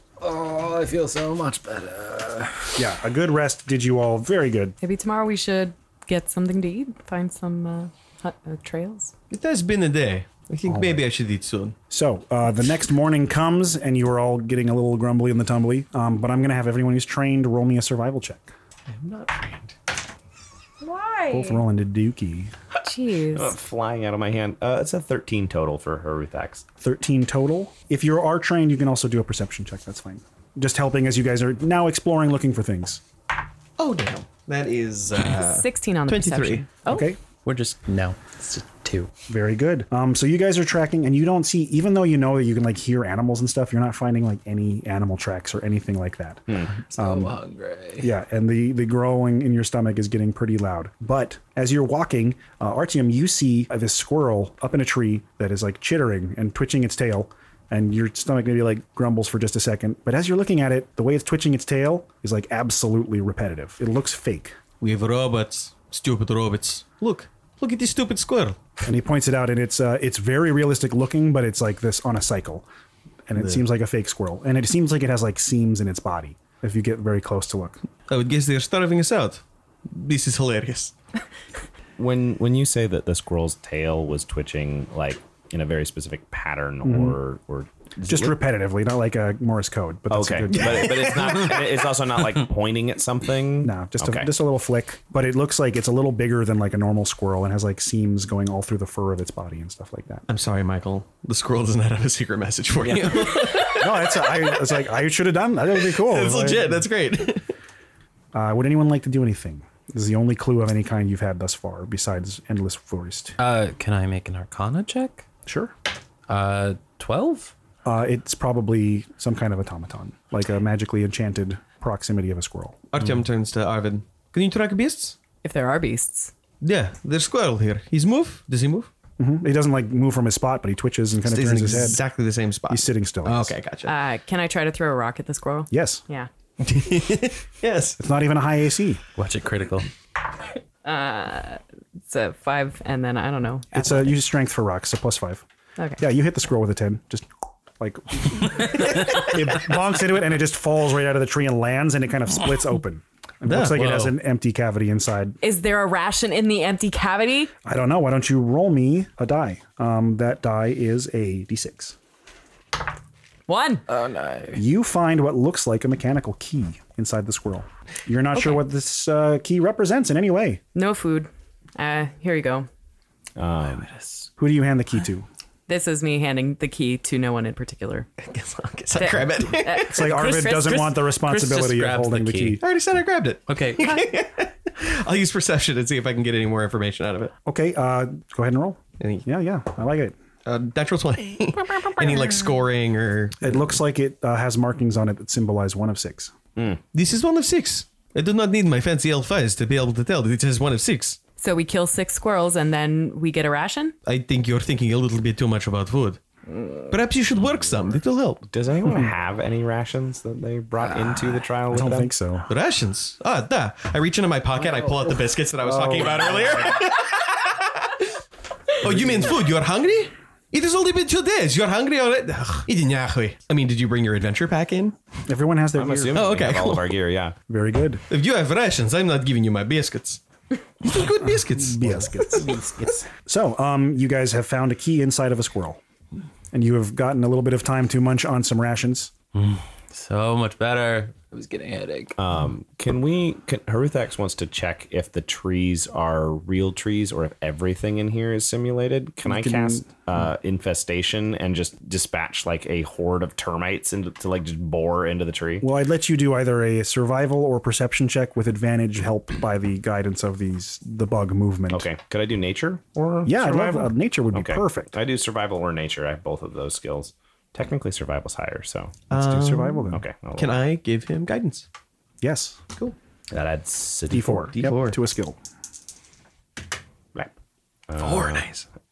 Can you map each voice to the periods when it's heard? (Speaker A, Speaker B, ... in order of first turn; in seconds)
Speaker A: 0.2-2.7
Speaker B: 2.8-4.8, 10.7-11.1, 11.9-18.5, 21.3-22.5, 26.8-33.0, 36.9-37.2, 39.3-47.4, 48.0-64.6, 68.8-72.7, 73.3-77.8, 86.8-87.2, 88.0-91.2, 93.6-100.2, 103.8-106.8, 108.3-113.4, 115.5-115.7, 117.8-122.8, 129.2-132.0, 132.7-133.6, 135.7-136.0, 138.0-139.0, 143.7-145.4, 146.0-147.3, 147.8-155.4, 157.6-162.0, 164.5-170.6, 174.4-175.3, 179.9-182.6, 187.5-190.2, 193.4-196.3, 208.8-209.1, 211.7-212.5, 215.6-216.7, 225.3-226.3, 227.5-228.0, 231.6-235.8, 236.5-239.1, 249.2-249.9, 255.6-261.9, 263.2-264.9, 269.1-270.0, 272.2-272.6, 274.1-275.4
Speaker C: 4.8-9.1, 20.8-21.6, 22.8-23.6, 35.4-37.1, 125.4-126.3, 133.9-136.3, 140.8-144.2, 155.4-157.5, 163.5-163.8, 168.3-168.6, 170.8-172.7, 175.7-178.1, 178.9-181.0, 201.4-203.9
Speaker D: 9.3-11.8, 18.9-19.7, 33.8-36.6, 64.8-68.6, 78.1-80.9, 90.5-91.6, 100.3-104.5, 105.8-107.5, 122.9-125.2, 126.6-128.9, 131.2-133.9, 136.6-138.0, 153.5-154.2, 178.2-180.0, 182.6-187.3, 189.0-189.3, 190.4-193.6, 196.9-201.2, 204.1-206.2, 206.9-208.4, 212.5-218.0, 218.8-225.0, 226.1-226.9, 228.1-230.2, 230.8-232.6, 269.1-271.7, 274.5-275.0, 278.0-278.6
Speaker E: 23.3-26.6, 82.0-88.4, 90.1-94.3, 173.4-173.9, 196.6-196.8, 208.4-212.1, 225.8-227.4, 242.2-255.7, 261.7-269.1, 269.9-270.7, 273.3-274.5, 277.9-278.6
Speaker F: 37.4-39.1, 47.0-48.0, 113.4-115.3, 116.3-117.5, 139.2-139.9, 163.9-164.6, 173.6-174.3, 181.1-182.6, 183.5-184.0, 210.8-211.4, 239.3-242.2